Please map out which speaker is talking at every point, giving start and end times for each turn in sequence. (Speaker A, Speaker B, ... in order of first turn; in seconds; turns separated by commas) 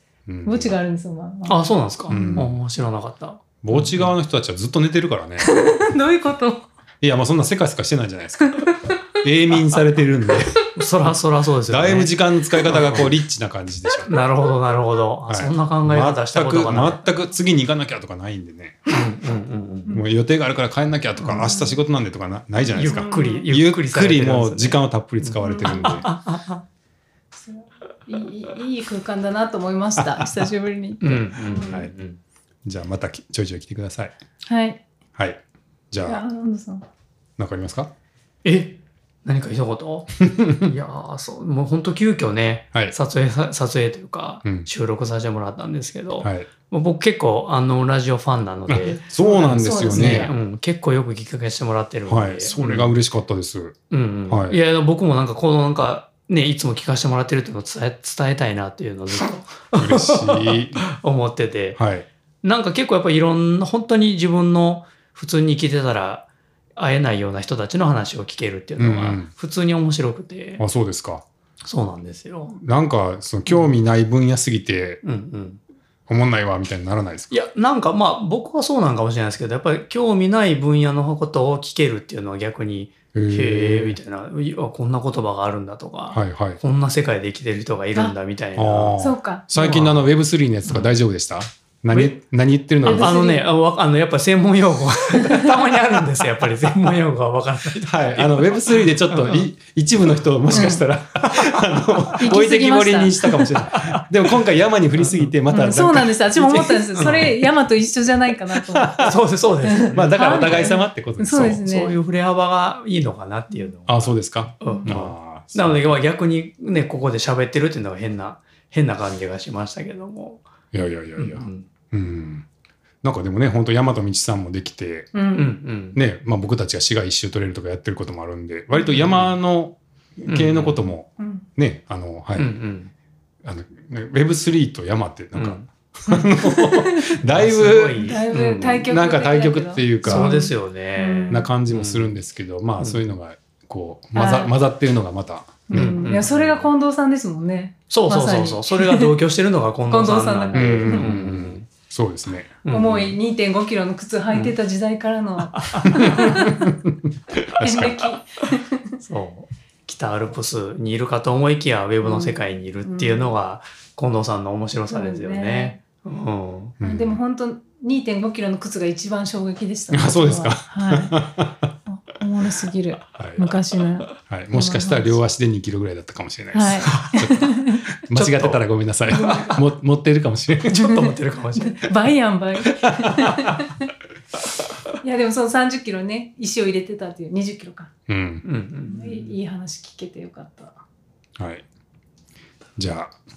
Speaker A: 0.3-0.7, Speaker B: 0.4-2.4, Speaker C: 1.4-4.1, Speaker A: 2.1-2.6, Speaker A: 3.6-5.6, Speaker B: 5.4-6.7, Speaker A: 7.0-11.1, Speaker B: 8.4-9.0, Speaker C: 10.7-13.1, Speaker A: 11.7-14.2, Speaker C: 14.1-17.0, Speaker A: 15.3-18.9, Speaker C: 18.9-20.0, Speaker A: 19.9-26.1, Speaker B: 21.3-21.8, Speaker C: 22.7-26.6, Speaker B: 22.8-23.4, Speaker B: 25.4-26.0, Speaker B: 27.4-31.8, Speaker A: 30.0-30.5, Speaker C: 31.0-32.2, Speaker A: 31.6-31.9, Speaker A: 32.6-34.1, Speaker B: 34.5-34.8, Speaker A: 35.9-36.2, Speaker B: 36.0-36.8, Speaker A: 37.4-37.9, Speaker C: 38.4-52.9, Speaker A: 40.2-40.7, Speaker A: 46.2-46.5, Speaker A: 48.7-50.3, Speaker B: 49.1-50.3, Speaker A: 52.1-53.8, Speaker C: 53.9-61.8, Speaker A: 54.3-54.6, Speaker A: 59.8-60.8, Speaker A: 61.8-62.1, Speaker C: 62.4-70.6, Speaker A: 68.8-69.3, Speaker A: 70.6-71.2, Speaker C: 71.6-72.6, Speaker A: 72.5-75.0, Speaker C: 75.0-75.6, Speaker A: 76.1-77.4, Speaker C: 77.3-89.0, Speaker A: 83.1-84.0, Speaker A: 86.1-86.6, Speaker A: 88.5-93.1, Speaker B: 89.0-89.4, Speaker C: 89.5-90.1, Speaker C: 90.7-90.9, Speaker B: 92.8-93.5, Speaker C: 92.8-99.5, Speaker B: 95.2-95.6, Speaker A: 97.8-107.3, Speaker C: 100.5-102.1, Speaker B: 100.5-100.8, Speaker B: 102.2-103.5, Speaker C: 105.0-105.3, Speaker B: 105.5-112.0, Speaker C: 106.9-107.4, Speaker A: 108.7-109.2, Speaker C: 109.0-110.7, Speaker A: 109.9-111.6, Speaker C: 111.3-120.4, Speaker A: 113.8-115.8, Speaker B: 114.6-114.9, Speaker A: 120.7-122.5, Speaker C: 121.2-121.7, Speaker A: 123.0-125.2, Speaker B: 125.1-125.5, Speaker C: 125.3-126.0, Speaker A: 125.9-132.5, Speaker C: 128.9-129.3, Speaker C: 130.2-130.9, Speaker B: 131.2-131.4, Speaker C: 132.3-132.9, Speaker A: 133.4-140.3, Speaker C: 135.3-135.6, Speaker B: 136.4-137.2, Speaker C: 137.2-138.9, Speaker B: 138.0-141.4, Speaker C: 140.0-142.2, Speaker A: 141.3-146.0, Speaker B: 144.1-144.5, Speaker B: 145.7-149.1, Speaker C: 145.7-146.7, Speaker C: 147.9-151.7, Speaker B: 149.9-151.1, Speaker A: 150.5-152.6, Speaker C: 152.6-153.2, Speaker B: 152.7-156.7, Speaker C: 155.5-156.5, Speaker A: 155.9-156.9, Speaker B: 157.5-158.9, Speaker A: 157.6-158.0, Speaker C: 159.0-166.8, Speaker B: 162.0-163.4, Speaker B: 164.9-165.8, Speaker A: 166.8-167.2, Speaker B: 166.8-171.2, Speaker A: 169.9-171.7, Speaker B: 171.8-175.2, Speaker A: 173.1-173.5, Speaker A: 174.2-180.9, Speaker B: 176.5-177.9, Speaker C: 176.9-177.2, Speaker C: 178.1-178.6, Speaker B: 179.1-179.5, Speaker C: 179.2-179.6, Speaker C: 180.6-182.0, Speaker B: 180.8-183.9, Speaker C: 183.0-183.5, Speaker B: 185.0-187.9, Speaker A: 188.1-188.4, Speaker C: 188.4-189.3, Speaker B: 188.8-190.8, Speaker A: 191.4-191.6, Speaker A: 192.8-193.2